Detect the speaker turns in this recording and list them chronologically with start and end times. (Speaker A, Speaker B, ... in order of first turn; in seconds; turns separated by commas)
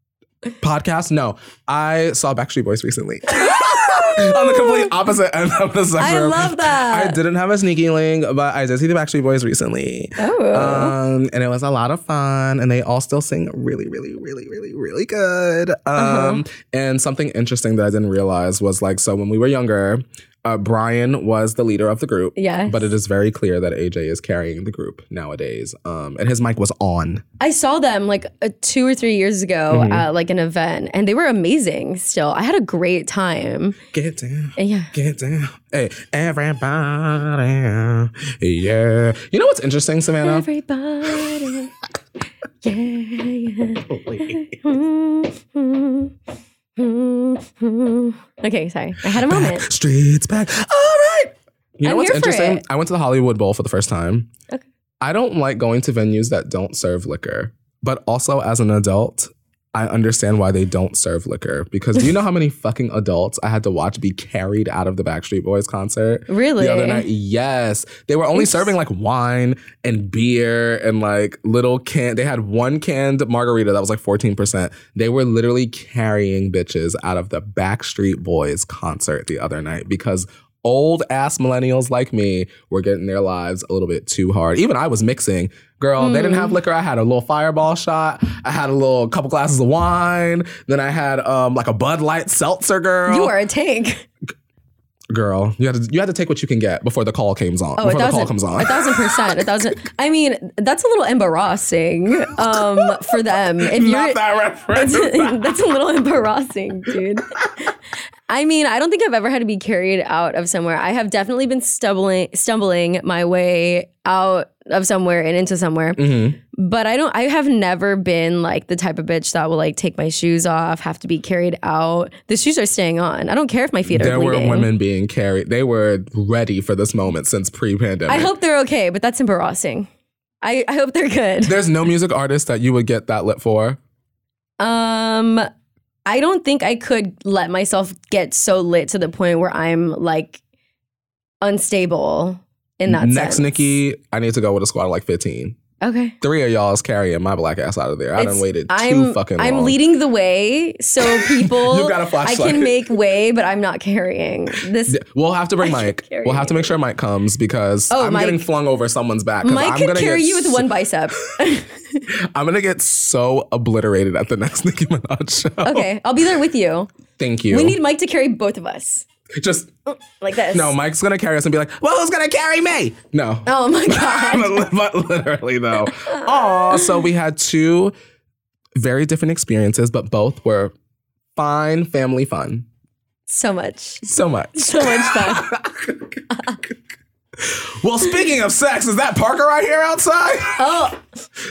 Speaker A: 0.6-27.2, Speaker B: 3.4-4.9, Speaker B: 6.0-7.2, Speaker B: 10.2-10.9, Speaker B: 15.9-16.4, Speaker B: 22.4-22.9, Speaker B: 27.4-33.8, Speaker A: 29.7-30.0, Speaker A: 33.9-40.5, Speaker B: 34.6-34.9, Speaker B: 40.2-41.7, Speaker B: 42.6-46.1, Speaker A: 43.9-44.6, Speaker B: 46.8-49.6, Speaker A: 49.0-54.3, Speaker B: 51.8-52.6, Speaker A: 55.0-93.3, Speaker B: 66.3-67.1, Speaker B: 86.0-86.6, Speaker B: 93.1-94.0, Speaker A: 95.1-99.5, Speaker B: 97.8-107.7, Speaker A: 102.3-105.5, Speaker B: 108.3-124.7, Speaker A: 116.0-116.4, Speaker A: 123.9-128.3, Speaker B: 128.1-129.9, Speaker B: 130.4-131.6, Speaker A: 131.4-133.8, Speaker B: 134.6-135.5, Speaker B: 136.1-140.4, Speaker B: 141.4-143.5, Speaker A: 142.9-145.6, Speaker B: 145.8-146.2, Speaker A: 146.2-149.8, Speaker B: 148.2-155.0, Speaker A: 151.0-152.8, Speaker A: 154.9-160.7, Speaker B: 155.6-156.8, Speaker B: 157.9-158.5, Speaker B: 159.4-162.0, Speaker A: 162.1-165.9, Speaker B: 165.6-166.9, Speaker A: 167.2-167.8, Speaker B: 167.5-169.0, Speaker A: 169.3-169.7, Speaker B: 169.9-170.7, Speaker A: 170.3-177.9, Speaker B: 173.4-174.7, Speaker A: 178.8-180.7, Speaker A: 181.3-182.7, Speaker B: 183.3-184.0, Speaker A: 184.0-186.2, Speaker B: 184.6-185.5, Speaker B: 186.3-186.6, Speaker A: 187.4-190.7, Speaker B: 190.6-191.0